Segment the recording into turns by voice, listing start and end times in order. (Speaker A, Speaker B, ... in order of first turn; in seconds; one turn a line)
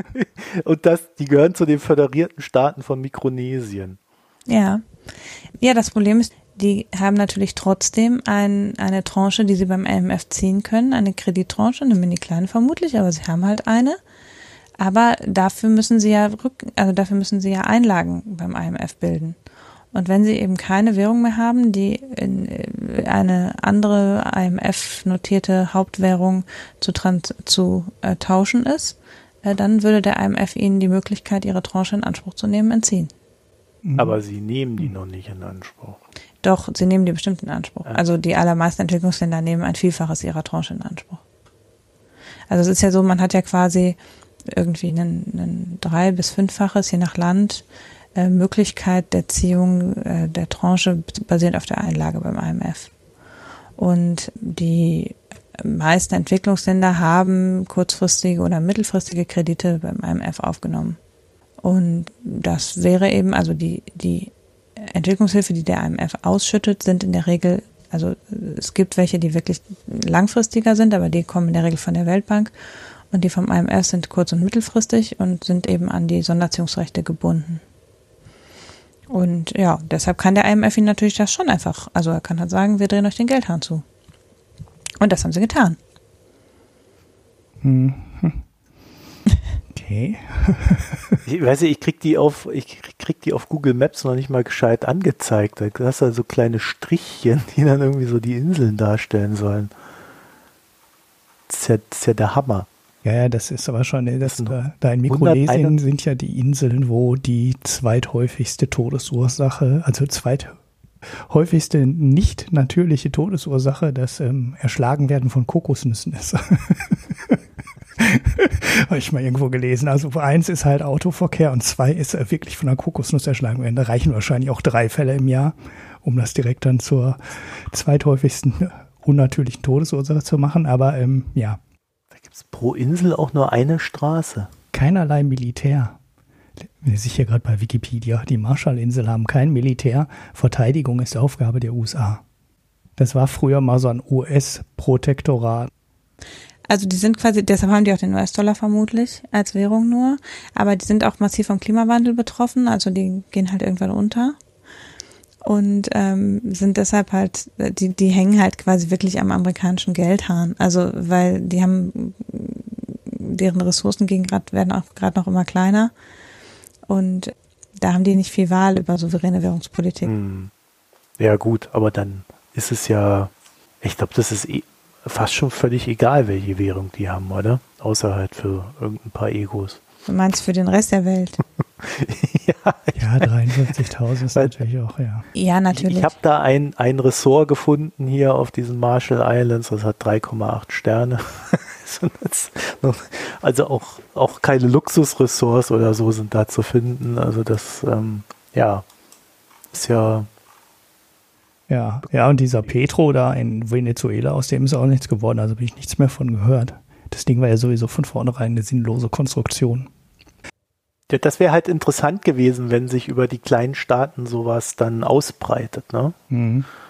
Speaker A: 0.1-4.0
Speaker B: 4.5-4.8
Speaker B: 5.6-14.0
Speaker B: 14.8-19.4
Speaker B: 19.9-33.1
Speaker C: 33.8-34.2
Speaker A: 34.0-36.0
Speaker B: 36.4-41.2
Speaker B: 42.5-44.0
Speaker B: 44.5-47.6
Speaker B: 48.1-52.9
Speaker B: 53.8-61.0
Speaker B: 61.6-72.5
Speaker B: 73.1-77.6
Speaker B: 79.1-83.8
Speaker B: 85.0-85.8
Speaker C: 87.6-88.4
Speaker C: 89.7-91.2
Speaker A: 91.3-99.7
Speaker A: 101.5-102.7
Speaker C: 103.0-110.5
Speaker A: 104.2-104.5
Speaker A: 105.1-105.8
Speaker C: 111.1-117.4
Speaker C: 118.0-131.6
Speaker A: 132.2-134.5
Speaker C: 134.7-136.0
Speaker C: 136.8-142.2
Speaker C: 143.0-145.7
Speaker B: 146.7-154.4
Speaker B: 155.4-165.9
Speaker B: 166.9-170.1
Speaker A: 170.0-170.5
Speaker A: 171.2-179.8
Speaker B: 180.1-181.4
Speaker A: 181.8-183.3
Speaker C: 183.0-185.3
Speaker B: 185.3-186.1
Speaker A: 185.7-198.8
Speaker A: 199.7-200.3
Speaker C: 201.7-209.9
Speaker A: 211.1-216.2
Speaker C: 216.3-216.7